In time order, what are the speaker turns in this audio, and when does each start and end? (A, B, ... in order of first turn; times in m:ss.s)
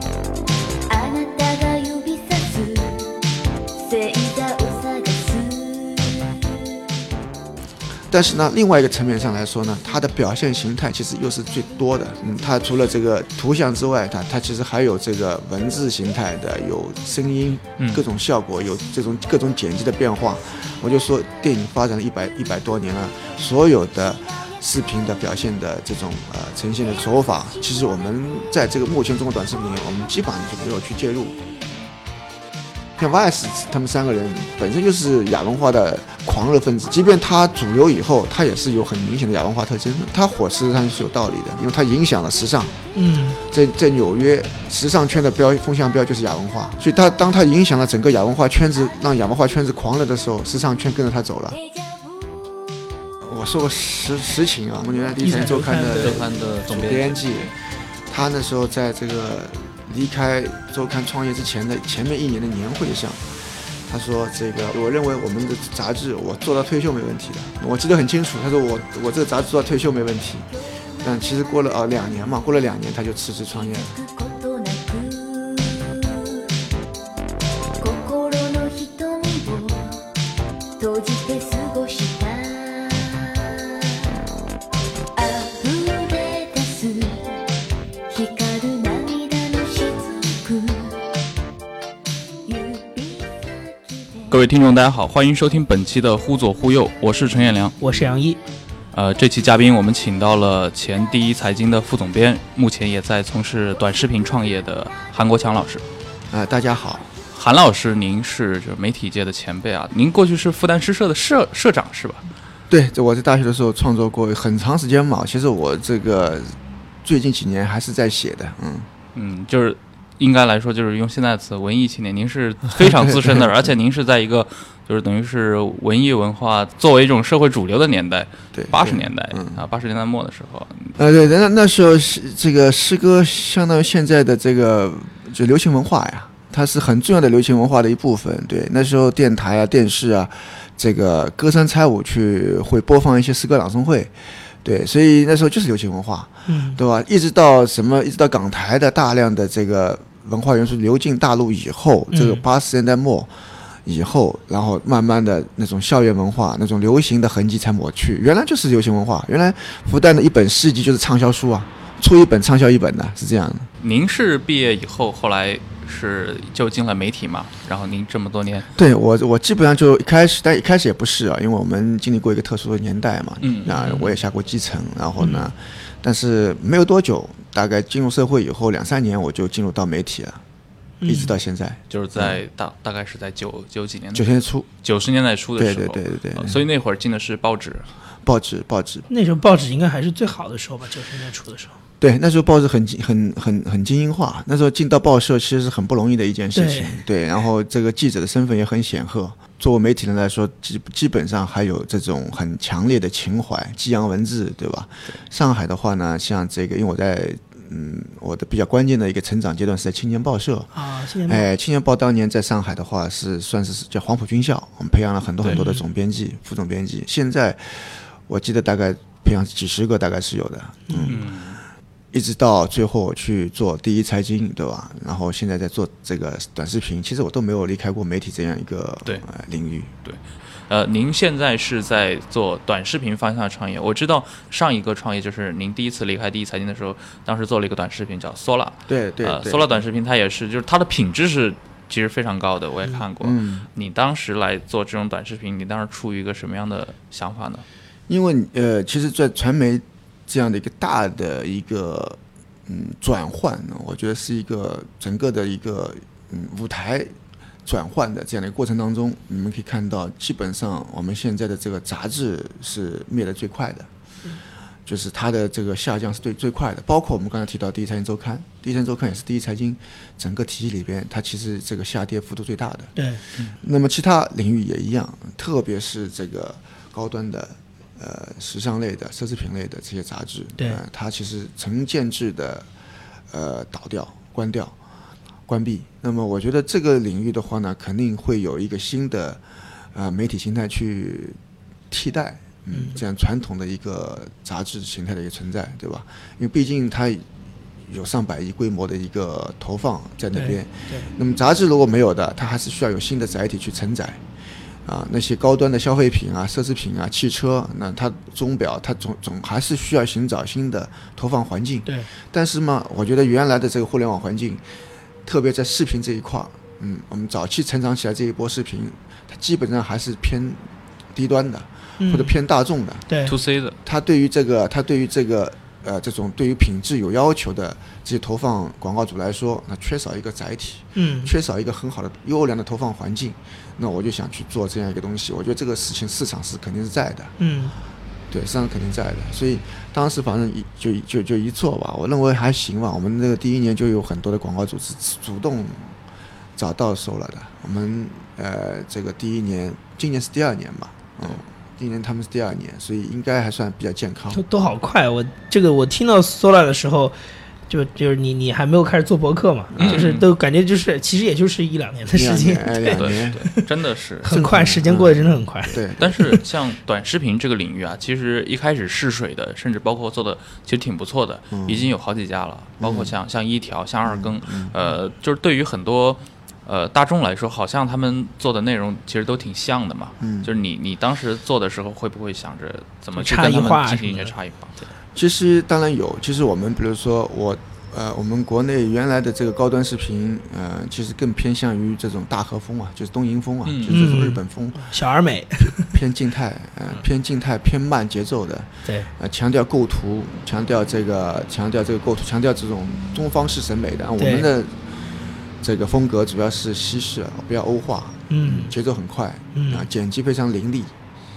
0:00.9-0:06.7 A
0:08.1-0:31.4 B
0:17.8-0:18.0 C
0:33.0-0:42.8 B
0:42.9-0:43.4 D
0:43.4-0:51.6 B
0:51.5-0:52.8 A
0:53.2-0:57.5 B
0:55.2-0:56.2 D
0:55.9-0:57.5 C
0:58.1-1:03.2 B
1:03.9-1:10.5 B
1:11.0-1:14.0 B
1:11.0-1:11.9 A
1:13.5-1:16.4 A
1:17.8-1:20.1 A
1:20.8-1:23.5 A
1:25.1-1:27.5 A
1:28.1-1:31.1 A
1:32.4-1:34.4 A
1:34.3-1:37.8 C
1:37.8-1:38.4 D
1:38.9-1:45.8 C
1:46.3-1:47.1 B
1:47.3-1:52.2 C
1:52.7-1:58.9 B
1:59.1-2:10.9 C
2:02.8-2:03.4 B
2:08.5-2:09.6 B
2:11.0-2:24.1 B
2:24.6-2:33.3 B
2:26.5-2:26.8 D
2:32.1-2:32.4 D
2:33.8-2:43.7 B
2:43.8-2:48.7 C
2:48.8-3:00.4 B
2:53.4-2:54.2 C
2:55.2-2:55.5 D
3:01.0-3:01.4 D
3:01.0-3:02.4 B
3:01.9-3:04.3 C
3:04.1-3:04.7 B
3:04.8-3:07.9 C
3:05.6-3:06.6 B
3:08.2-3:09.1 B
3:09.1-3:11.8 D
3:12.0-3:30.7 B
3:16.5-3:17.0 D
3:30.7-3:31.4 D
3:31.2-3:41.2 B
3:35.5-3:35.8 D
3:40.9-3:41.2 D
3:41.1-3:41.6 C
3:42.1-3:49.9 B
3:50.0-4:07.6 C
3:58.9-3:59.8 B
4:03.2-4:03.7 B
4:08.1-4:17.1 B
4:17.6-4:23.9 B
4:24.8-4:32.9 B
4:33.0-4:33.2 D
4:33.6-4:42.7 B
4:43.3-4:44.7 B
4:45.5-4:49.4 B
4:49.9-4:51.4 B
4:51.9-4:57.2 B
4:52.7-4:53.0 D
4:57.9-5:04.2 B
5:00.3-5:01.1 D
5:04.8-5:14.6 B
5:15.2-5:23.1 B
5:22.0-5:22.3 D
5:23.1-5:23.4 D
5:23.2-5:23.8 C
5:23.8-5:37.3 B
5:30.9-5:31.3 D
5:37.4-5:37.7 D
5:38.3-5:45.9 B
5:46.6-5:54.4 B
5:54.3-5:57.2 D
5:57.7-6:03.6 D
5:59.7-6:00.1 B
5:59.8-6:00.3 C
6:02.1-6:03.5 B
6:02.9-6:04.3 C
6:04.2-6:05.8 D
6:04.3-6:06.4 B
6:06.0-6:24.9 C
6:11.5-6:11.9 B
6:12.8-6:13.1 B
6:14.0-6:14.7 B
6:20.2-6:20.5 B
6:23.2-6:24.3 D
6:25.1-6:34.9 B
6:33.6-6:34.2 C
6:33.9-6:35.9 D
6:35.6-6:44.7 B
6:38.8-6:39.1 D
6:44.2-6:44.5 D
6:45.6-6:50.9 B
6:48.3-6:48.7 D
6:49.5-6:49.9 D